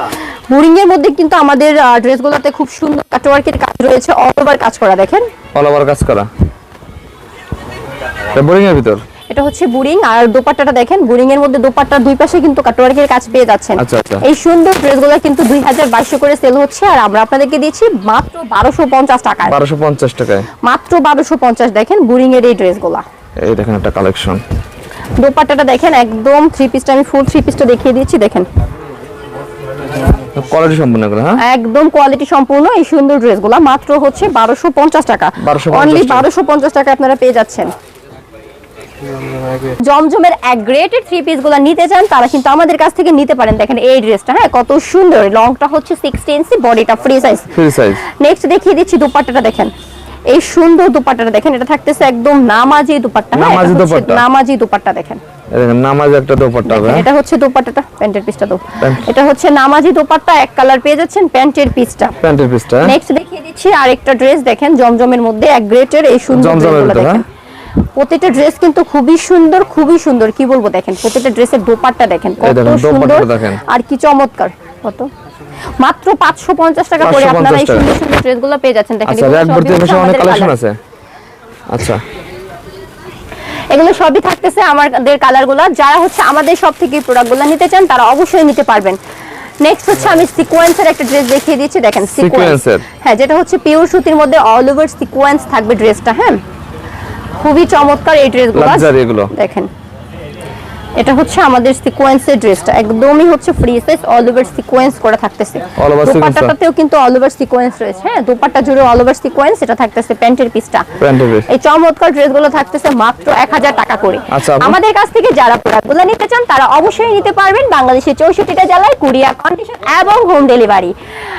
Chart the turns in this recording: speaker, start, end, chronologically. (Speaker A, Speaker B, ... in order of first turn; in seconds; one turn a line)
Speaker A: 0.5-5.2
Speaker B: 5.5-6.3
Speaker B: 8.3-9.0
Speaker A: 9.3-19.6
Speaker B: 13.8-14.2
Speaker B: 19.5-20.5
Speaker A: 20.6-23.0
Speaker B: 23.4-24.4
Speaker A: 25.2-28.5
Speaker B: 30.2-31.4
Speaker A: 31.4-37.7
Speaker B: 35.4-36.3
Speaker A: 39.8-49.7
Speaker B: 47.5-48.0
Speaker A: 50.3-55.2
Speaker B: 53.3-54.2
Speaker B: 55.5-57.0
Speaker A: 56.6-62.2
Speaker B: 58.8-59.1
Speaker B: 62.2-63.0
Speaker A: 62.8-67.2
Speaker B: 66.3-67.2
Speaker A: 67.8-75.1
Speaker B: 72.4-73.6
Speaker A: 75.8-80.5
Speaker B: 77.0-77.9
Speaker B: 79.0-80.8
Speaker B: 81.7-82.0
Speaker A: 83.7-89.0
Speaker A: 89.6-96.4
Speaker B: 92.1-92.8
Speaker A: 97.4-99.7
Speaker B: 98.5-99.3
Speaker A: 101.0-110.9
Speaker B: 105.8-106.5
Speaker B: 111.0-111.5
Speaker A: 111.5-120.9
Speaker B: 114.3-114.8